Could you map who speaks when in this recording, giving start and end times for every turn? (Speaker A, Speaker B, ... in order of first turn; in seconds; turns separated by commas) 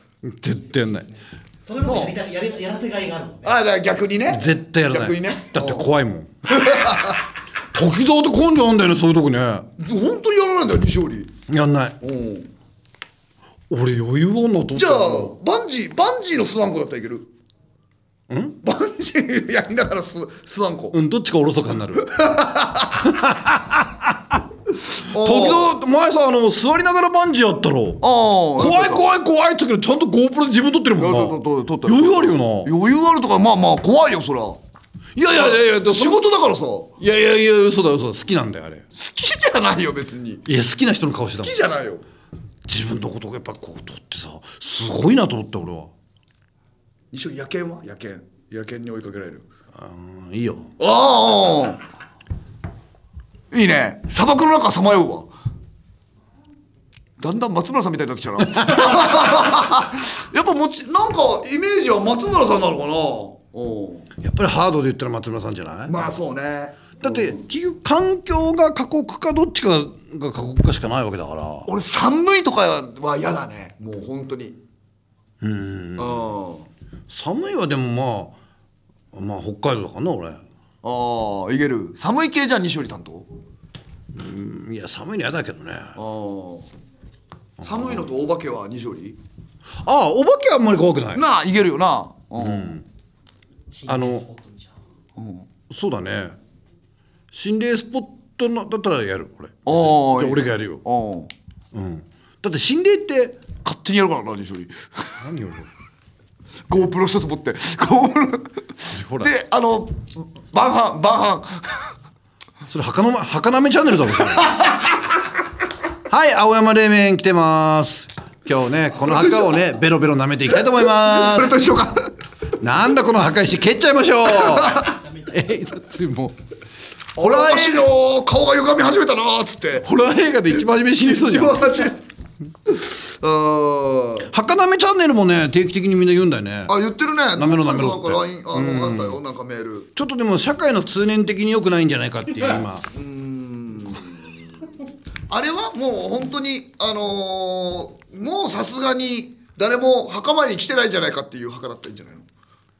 Speaker A: 0.2-1.1, Speaker B: 0.8-3.6, Speaker C: 1.8-2.1, Speaker C: 3.4-5.9, Speaker A: 4.3-6.3, Speaker C: 6.5-7.2, Speaker A: 7.7-9.7, Speaker C: 9.8-11.3, Speaker A: 11.5-12.0, Speaker C: 12.0-12.5, Speaker A: 13.7-15.3, Speaker C: 14.7-17.3, Speaker A: 18.3-18.6, Speaker C: 18.6-21.0, Speaker A: 20.9-22.1, Speaker C: 22.0-23.0, Speaker A: 23.0-24.4, Speaker C: 25.0-25.7, Speaker A: 25.1-28.0, Speaker C: 28.0-29.1, Speaker A: 28.6-32.7, Speaker C: 30.9-34.6, Speaker A: 35.1-36.2, Speaker C: 35.3-36.9, Speaker A: 37.0-38.9, Speaker C: 38.9-40.5, Speaker A: 40.5-41.6, Speaker C: 41.4-42.0, Speaker A: 42.6-45.9, Speaker C: 47.1-49.4, Speaker A: 49.7-50.7, Speaker C: 50.8-51.8, Speaker C: 53.5-55.3, Speaker C: 57.2-64.1, Speaker A: 64.2-66.1, Speaker C: 65.8-67.4, Speaker A: 67.0-71.7, Speaker C: 71.7-74.6, Speaker A: 75.4-76.3, Speaker C: 76.0-76.7, Speaker A: 77.1-78.4, Speaker A: 79.1-80.4, Speaker C: 80.8-83.3, Speaker A: 84.1-86.0, Speaker C: 86.0-86.7, Speaker A: 87.6-88.0, Speaker C: 87.6-89.2, Speaker A: 89.8-91.2, Speaker C: 91.1-92.8, Speaker A: 92.4-92.8, Speaker B: 93.7-94.8, Speaker A: 93.9-94.3, Speaker C: 95.2-95.5, Speaker A: 95.7-96.4, Speaker A: 97.3-100.8, Speaker C: 99.7-101.3, Speaker A: 101.7-103.4, Speaker C: 103.6-105.2, Speaker A: 105.2-105.7, Speaker C: 106.7-111.9, Speaker A: 108.9-109.3, Speaker A: 112.7-114.6, Speaker A: 116.1-121.6, Speaker C: 119.0-119.5, Speaker C: 120.5-122.1, Speaker A: 122.6-126.4, Speaker C: 124.3-124.9, Speaker C: 127.2-129.9, Speaker A: 127.2-127.9, Speaker A: 129.8-131.8, Speaker C: 131.0-132.0, Speaker C: 132.7-134.3, Speaker A: 134.3-136.7, Speaker C: 136.7-139.9, Speaker A: 137.3-139.2, Speaker A: 139.9-142.8, Speaker C: 142.9-144.6, Speaker C: 145.3-152.3